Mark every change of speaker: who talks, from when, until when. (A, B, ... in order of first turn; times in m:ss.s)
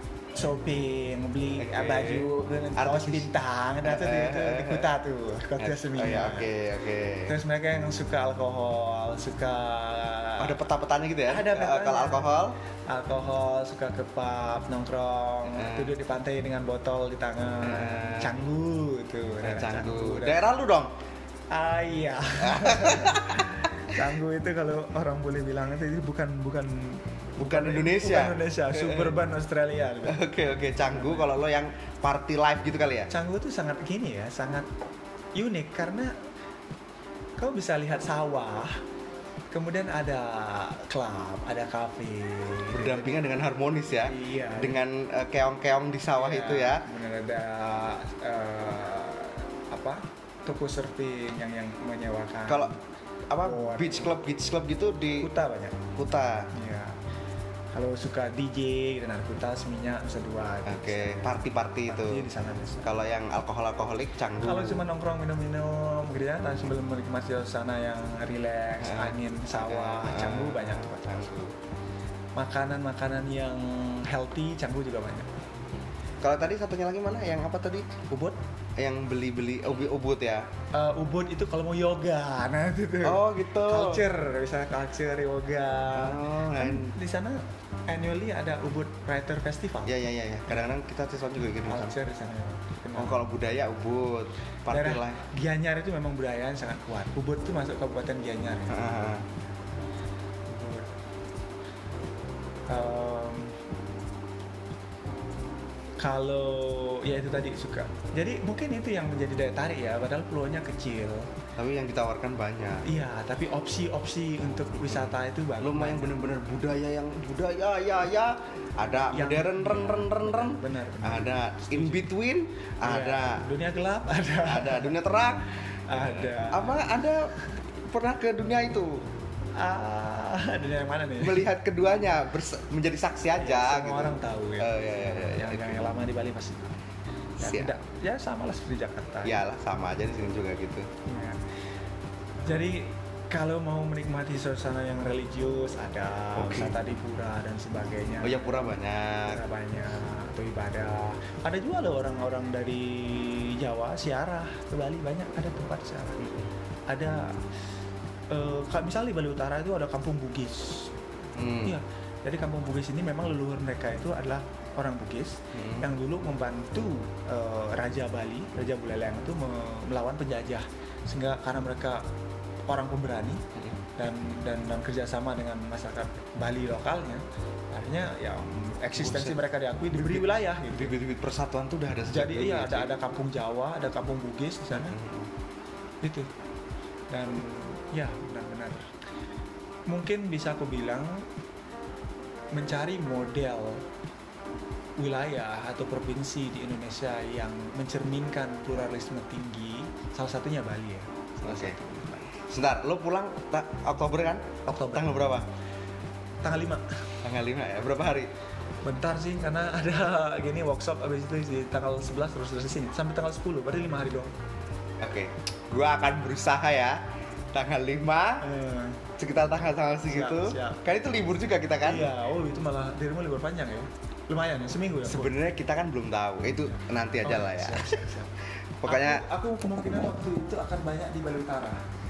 0:00.4-0:06.5 A
0:01.6-0:03.3 B
0:03.8-0:04.9 B
0:05.6-0:07.3 B
0:07.3-0:10.6 A
0:10.4-0:12.6 B
0:11.3-0:20.5 A
0:15.4-0:16.0 B
0:17.6-0:18.4 B
0:19.4-0:20.9 B
0:21.5-0:30.2 A
0:22.4-0:24.0 B
0:27.4-0:29.2 B
0:30.1-0:33.1 B
0:30.9-0:31.3 A
0:33.1-0:34.7 A
0:35.4-0:36.1 A
0:37.4-0:38.8 A
0:39.5-0:43.2 A
0:42.7-0:46.8 B
0:44.0-0:44.8 A
0:46.2-0:52.8 A
0:53.3-0:55.3 B
0:53.4-0:54.1 A
0:55.2-0:55.8 A
0:56.0-0:56.5 B
0:56.5-0:57.0 A
0:57.7-1:02.9 A
1:00.7-1:02.3 B
1:02.8-1:04.9 B
1:04.4-1:11.2 A
1:08.8-1:11.6 B
1:12.4-1:15.3 A
1:16.2-1:17.9 B
1:18.1-1:18.4 A
1:18.8-1:20.5 B
1:20.7-1:30.7 A
1:23.0-1:24.1 B
1:25.9-1:26.9 B
1:29.9-1:32.0 B
1:31.7-1:33.2 A
1:33.0-1:35.2 B
1:34.7-1:38.8 A
1:38.7-1:39.2 B
1:40.5-1:40.9 A
1:42.7-1:43.6 A
1:46.0-1:51.3 A
1:51.6-1:52.8 B
1:52.8-1:56.1 A
1:54.8-2:03.4 B
1:59.1-2:02.1 A
2:02.8-2:05.0 A
2:04.4-2:07.3 B
2:05.9-2:06.8 A
2:07.9-2:09.1 B
2:09.6-2:11.5 A
2:11.2-2:15.9 B
2:13.4-2:16.7 A
2:17.4-2:17.8 B
2:17.4-2:19.4 A
2:19.2-2:20.9 B
2:21.1-2:21.4 A
2:22.4-2:28.7 A
2:26.4-2:26.8 B
2:28.2-2:29.4 B
2:29.2-2:36.2 A
2:36.2-2:36.5 B
2:36.9-2:37.4 A
2:38.3-2:40.9 A
2:41.4-2:41.8 B
2:41.6-2:52.1 A
2:45.5-2:45.9 B
2:52.7-2:53.4 A
2:54.0-3:01.0 A
2:58.9-2:59.4 B
2:59.9-3:02.9 B
3:02.1-3:05.0 A
3:04.7-3:05.3 B
3:06.0-3:06.3 A
3:07.1-3:08.9 A
3:09.9-3:11.3 A
3:12.5-3:13.8 A
3:15.0-3:22.4 A
3:21.4-3:21.8 B
3:22.4-3:25.5 B
3:24.7-3:25.2 A
3:26.4-3:26.8 A
3:27.2-3:28.3 B
3:28.8-3:34.3 A
3:35.0-3:37.0 B
3:37.5-3:38.5 B
3:38.4-3:39.0 A
3:39.2-3:42.1 B
3:40.1-3:40.8 A
3:41.8-3:45.3 A
3:45.1-3:48.1 B
3:46.8-3:48.3 A
3:48.8-3:49.2 B
3:48.9-3:51.8 A